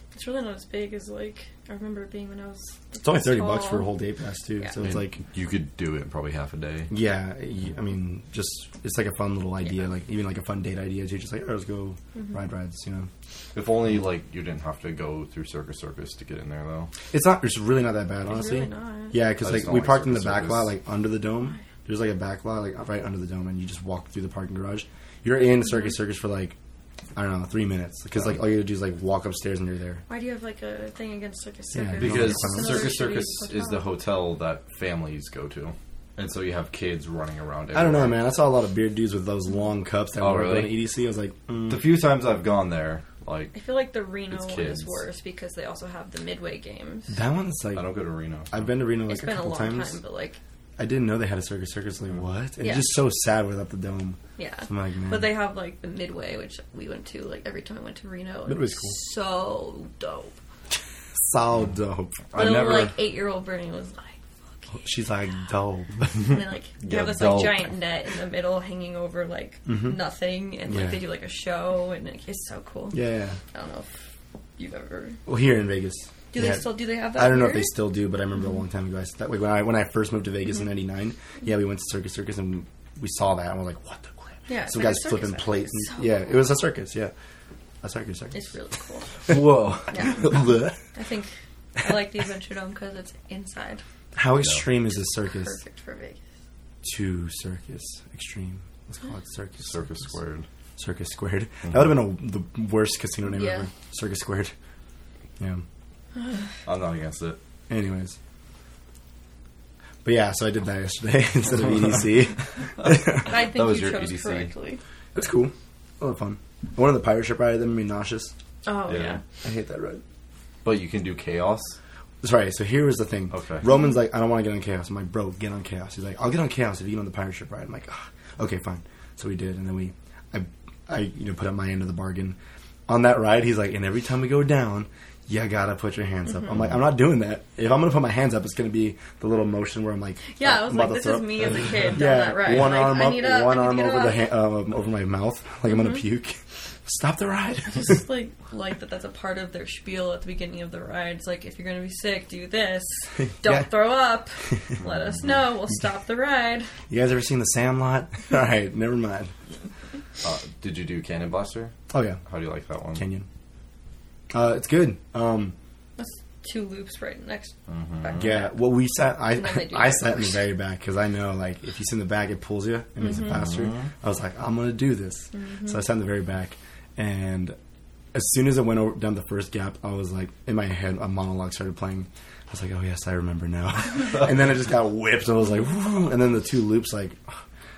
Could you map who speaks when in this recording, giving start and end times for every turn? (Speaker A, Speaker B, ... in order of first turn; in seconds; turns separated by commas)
Speaker A: 0.1-3.9, Speaker B: 3.0-5.2, Speaker C: 4.8-6.9, Speaker B: 6.9-13.1, Speaker C: 13.5-16.9, Speaker B: 17.1-26.5, Speaker A: 18.3-19.1, Speaker C: 19.4-20.7, Speaker B: 27.1-30.0, Speaker A: 30.1-33.9, Speaker B: 31.7-33.0, Speaker C: 32.0-38.2, Speaker B: 37.7-41.9, Speaker C: 40.2-40.8, Speaker C: 41.7-43.5, Speaker A: 43.5-47.1, Speaker C: 44.3-45.0, Speaker B: 47.1-47.9, Speaker C: 47.7-48.5, Speaker B: 48.5-50.0, Speaker A: 49.1-50.4, Speaker B: 50.8-55.3, Speaker A: 52.6-52.9, Speaker A: 54.4-60.3, Speaker B: 58.5-59.0, Speaker B: 61.2-62.3, Speaker C: 62.3-62.9, Speaker A: 62.3-64.8, Speaker B: 64.7-66.3, Speaker A: 66.2-73.0, Speaker C: 66.8-67.7, Speaker B: 69.7-70.0, Speaker B: 70.7-71.0, Speaker B: 72.9-73.4, Speaker A: 73.5-74.0, Speaker A: 74.6-75.2, Speaker B: 75.2-87.1, Speaker A: 76.3-77.7, Speaker A: 84.5-86.3, Speaker B: 87.8-88.5, Speaker A: 88.3-89.2, Speaker C: 89.3-89.9, Speaker A: 89.9-90.3, Speaker B: 89.9-90.8, Speaker A: 90.9-93.8, Speaker B: 94.1-95.6, Speaker C: 94.4-94.7, Speaker A: 95.2-96.2, Speaker B: 96.8-100.0, Speaker C: 99.6-100.5, Speaker B: 100.8-104.5, Speaker A: 103.3-103.7, Speaker B: 105.4-105.6, Speaker C: 106.6-107.4, Speaker B: 107.7-108.2, Speaker B: 110.0-113.3, Speaker C: 112.9-114.5, Speaker A: 113.2-114.8, Speaker B: 115.1-118.3, Speaker A: 118.6-119.2, Speaker C: 118.9-119.2, Speaker B: 119.4-120.0, Speaker C: 120.6-121.8, Speaker B: 122.2-132.4, Speaker C: 123.3-123.6, Speaker B: 132.9-148.0, Speaker A: 140.3-144.3, Speaker A: 147.7-156.7, Speaker B: 153.4-153.9, Speaker C: 154.8-155.3, Speaker B: 156.9-159.3, Speaker C: 160.2-161.7, Speaker B: 161.9-162.2, Speaker C: 162.2-163.0, Speaker B: 162.9-163.3, Speaker B: 164.3-165.5, Speaker A: 166.0-168.5, Speaker C: 167.7-168.3, Speaker B: 168.1-177.6, Speaker A: 169.3-170.4, Speaker A: 173.0-173.3, Speaker C: 173.2-173.9, Speaker A: 175.3-175.8, Speaker B: 178.1-187.4